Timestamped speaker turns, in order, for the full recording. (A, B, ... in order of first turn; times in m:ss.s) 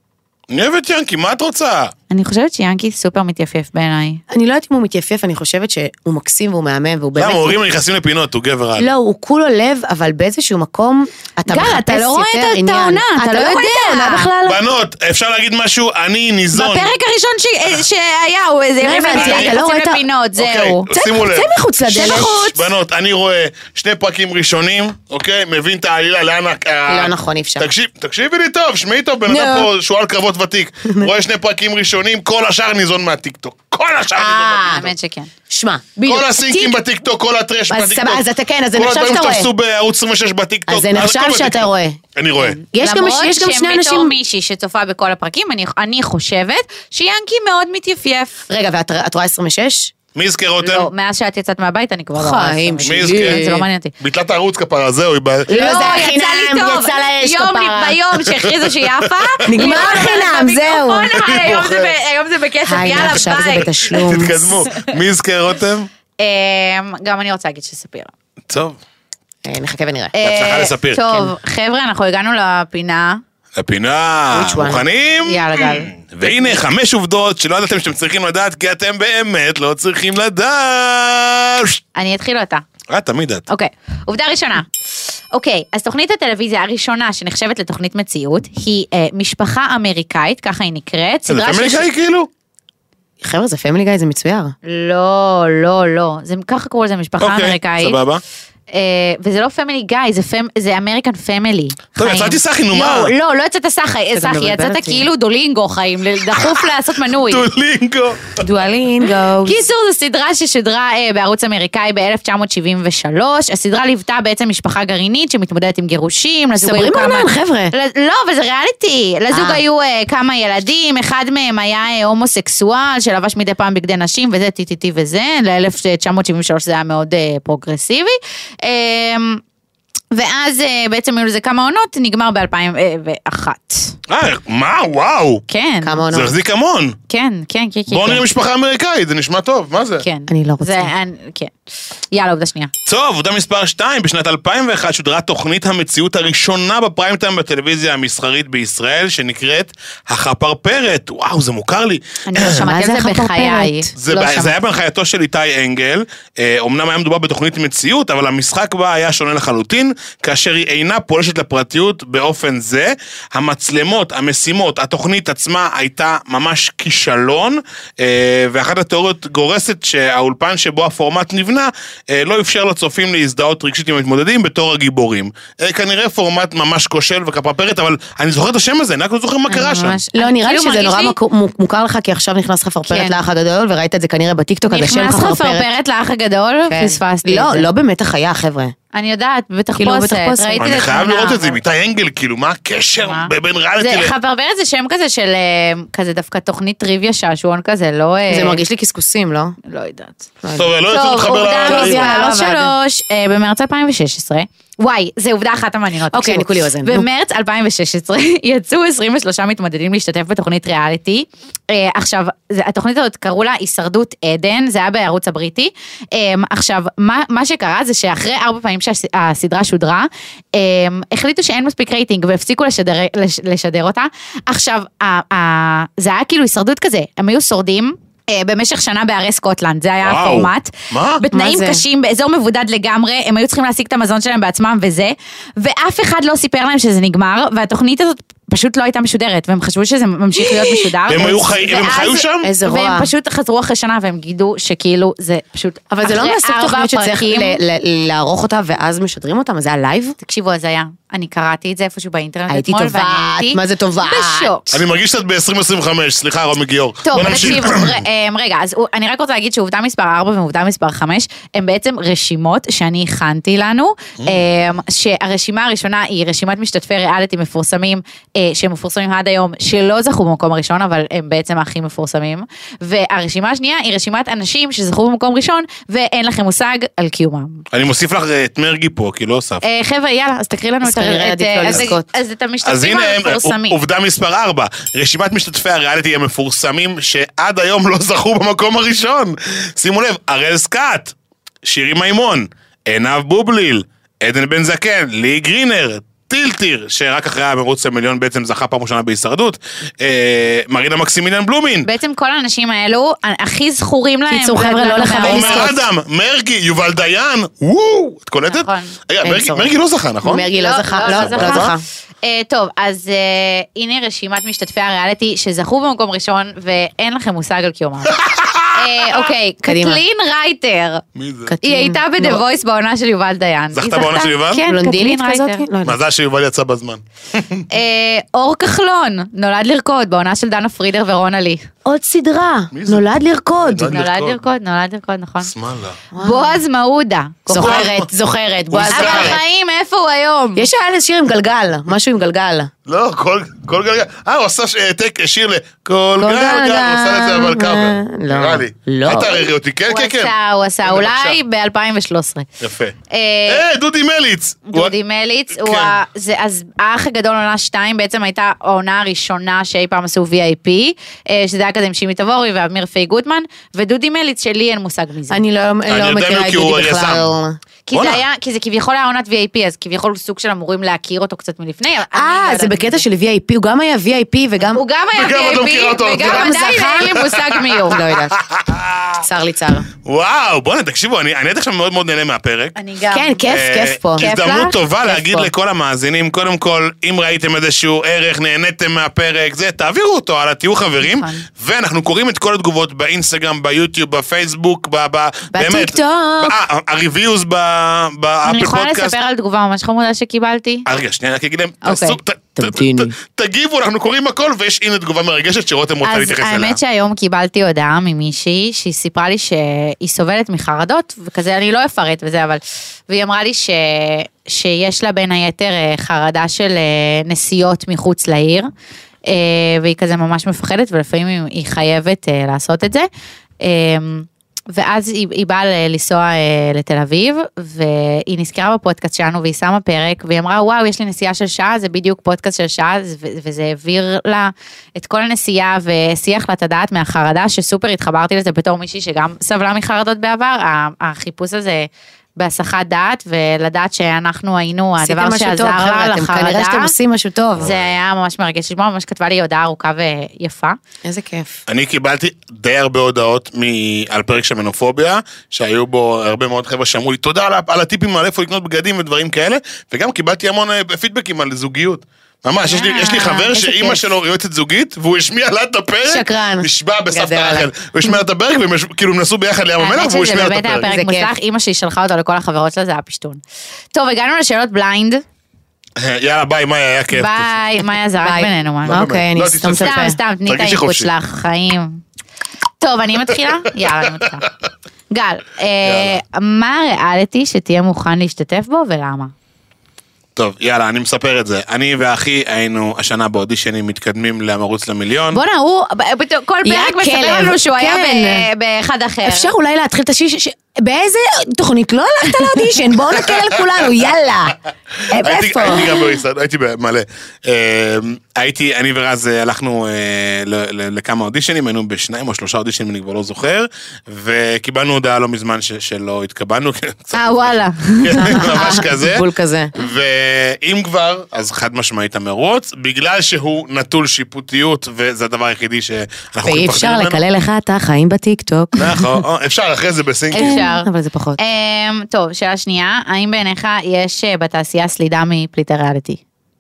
0:00.5-0:01.9 A
0:02.1-0:04.2 B
0:04.3-0:07.6 C
0:07.2-0:08.9 A
0:08.8-0:14.6 C
0:11.5-0:14.3 B
0:14.4-0:16.9 A
0:16.5-0:20.9 B
0:18.8-0:20.0 C
0:19.1-0:19.6 A
0:20.4-0:34.9 A
0:20.9-0:22.5 C
0:21.9-0:22.7 B
0:26.9-0:27.7 C
0:29.3-0:29.7 C
0:34.2-0:34.9 C
0:34.2-0:35.3 B
0:35.5-0:36.8 C
0:36.1-0:42.6 A
0:37.7-0:39.5 C
0:40.7-0:42.0 C
0:42.6-0:44.2 C
0:42.8-0:48.4 B
0:48.5-0:49.9 C
0:50.2-0:50.9 A
0:50.6-0:53.9 B
0:52.2-0:53.6 C
0:52.8-0:53.5 A
0:54.0-0:55.9 A
0:55.5-0:58.0 C
0:55.5-1:03.9 B
0:58.3-1:00.1 A
0:59.5-1:01.2 C
1:01.2-1:01.9 A
1:02.6-1:04.6 C
1:03.9-1:05.9 A
1:06.2-1:08.1 B
1:08.5-1:08.8 A
1:09.4-1:10.2 C
1:10.2-1:13.2 B
1:10.2-1:11.3 A
1:13.6-1:21.8 A
1:14.3-1:14.9 C
1:15.2-1:15.9 B
1:22.0-1:22.6 B
1:22.9-1:23.5 A
1:23.5-1:24.7 B
1:25.3-1:31.9 B
1:31.3-1:32.3 A
1:33.2-1:34.6 C
1:34.6-1:38.0 B
1:37.2-1:38.2 A
1:38.7-1:47.4 B
1:42.0-1:43.1 A
1:44.1-1:45.0 C
1:47.2-1:48.4 A
1:48.4-1:49.6 C
1:49.4-2:09.4 B
1:56.6-1:57.7 C
1:59.3-1:59.6 C
2:10.1-2:14.0 B
2:14.1-2:15.4 A
2:15.5-2:16.0 B
2:15.8-2:16.4 C
2:16.1-2:17.0 A
2:17.1-2:18.3 B
2:17.9-2:20.0 A
2:20.0-2:21.5 B
2:20.3-2:21.0 C
2:22.1-2:22.7 B
2:22.9-2:32.6 A
2:32.3-2:34.6 B
2:32.4-2:33.9 C
2:34.0-3:00.0 A
2:59.5-3:01.2 B
3:00.1-3:05.7 C
3:02.9-3:03.2 B
3:04.7-3:07.7 B
3:06.7-3:08.7 C
3:08.9-3:11.6 B
3:09.8-3:10.7 C
3:10.6-3:14.1 A
3:13.0-3:18.6 B
3:18.3-3:19.6 C
3:19.6-3:20.3 B
3:20.4-3:20.7 C
3:20.5-3:22.1 A
3:20.9-4:07.6 B
3:21.6-3:22.7 C
3:26.1-3:27.1 C
3:50.0-3:51.2 A
3:51.3-3:51.8 C
4:00.4-4:01.3 C
4:01.1-4:02.5 A
4:02.4-4:03.1 C
4:05.9-4:10.2 C
4:10.2-4:14.8 B
4:12.5-4:14.5 C
4:14.7-4:18.0 A
4:17.0-4:37.6 B
4:37.7-4:39.6 A
4:39.6-4:43.8 B
4:40.8-4:42.0 C
4:41.7-4:41.9 A
4:42.6-5:01.9 A
5:01.8-5:05.7 B
5:04.3-5:05.8 C
5:05.2-5:10.5 A
5:08.5-5:09.0 B
5:09.2-5:09.7 C
5:10.2-5:11.8 C
5:10.5-5:11.7 B
5:11.1-5:11.7 A
5:12.2-5:18.2 B
5:18.1-5:19.2 A
5:18.8-5:21.0 B
5:19.6-5:20.0 C
5:21.2-5:21.5 A
5:21.4-5:22.4 C
5:21.6-5:25.6 B
5:23.7-5:24.6 A
5:24.6-5:26.0 C
5:25.8-5:27.6 A
5:27.7-5:31.7 B
5:31.8-5:34.0 C
5:32.7-5:33.1 A
5:33.6-5:34.4 A
5:33.9-5:35.5 B
5:35.4-5:36.0 A
5:36.1-5:36.6 C
5:36.2-5:37.8 B
5:37.5-5:39.4 C
5:37.5-5:38.1 A
5:38.7-5:39.4 A
5:38.9-5:40.7 B
5:40.6-5:42.7 C
5:42.9-5:50.3 A
5:46.2-5:49.5 C
5:49.9-5:52.5 B
5:50.8-5:51.4 A
5:52.6-5:53.0 A
5:53.1-5:53.6 B
5:53.5-5:54.9 A
5:54.7-6:05.4 B
5:55.5-5:56.0 A
6:05.3-6:07.6 C
6:05.9-6:07.3 A
6:07.9-6:13.0 B
6:07.9-6:08.2 A
6:12.1-6:14.8 C
6:14.8-6:18.0 B
6:15.2-6:16.5 A
6:16.2-6:17.2 C
6:17.1-6:19.2 A
6:17.9-6:18.4 C
6:19.2-6:19.9 C
6:20.0-6:22.8 A
6:22.8-6:23.4 B
6:23.1-6:24.3 C
6:23.5-6:39.1 A
6:24.2-6:24.8 B
6:25.0-6:25.5 C
6:31.0-6:31.4 B
6:35.5-6:36.6 C
6:38.4-6:40.9 B
6:40.9-6:46.8 A
6:41.8-6:42.2 B
6:42.6-6:43.1 C
6:46.0-6:58.7 B
6:59.3-7:03.1 B
7:03.6-7:26.9 B
7:25.0-7:27.7 C
7:27.6-7:27.9 A
7:27.6-7:30.8 B
7:31.0-7:31.6 C
7:31.7-7:50.9 A
7:42.7-7:43.5 B
7:43.5-7:44.0 C
7:46.1-7:47.7 C
7:49.8-7:53.4 B
7:50.8-7:51.3 C
7:53.9-7:55.2 B
7:56.0-7:57.5 A
7:57.1-7:59.1 B
7:58.2-8:00.2 C
7:58.8-8:01.1 A
7:59.6-8:02.0 B
8:02.8-8:04.5 B
8:05.1-8:09.3 B
8:05.8-8:06.2 A
8:10.4-8:15.4 A
8:15.3-8:19.5 B
8:16.6-8:18.5 C
8:19.2-8:24.6 C
8:25.1-8:26.1 C
8:25.1-8:47.2 A
8:37.1-8:38.6 B
8:38.2-8:39.7 C
8:46.4-8:49.2 C
8:48.8-8:50.6 A
8:50.3-8:51.4 C
8:50.3-8:56.2 B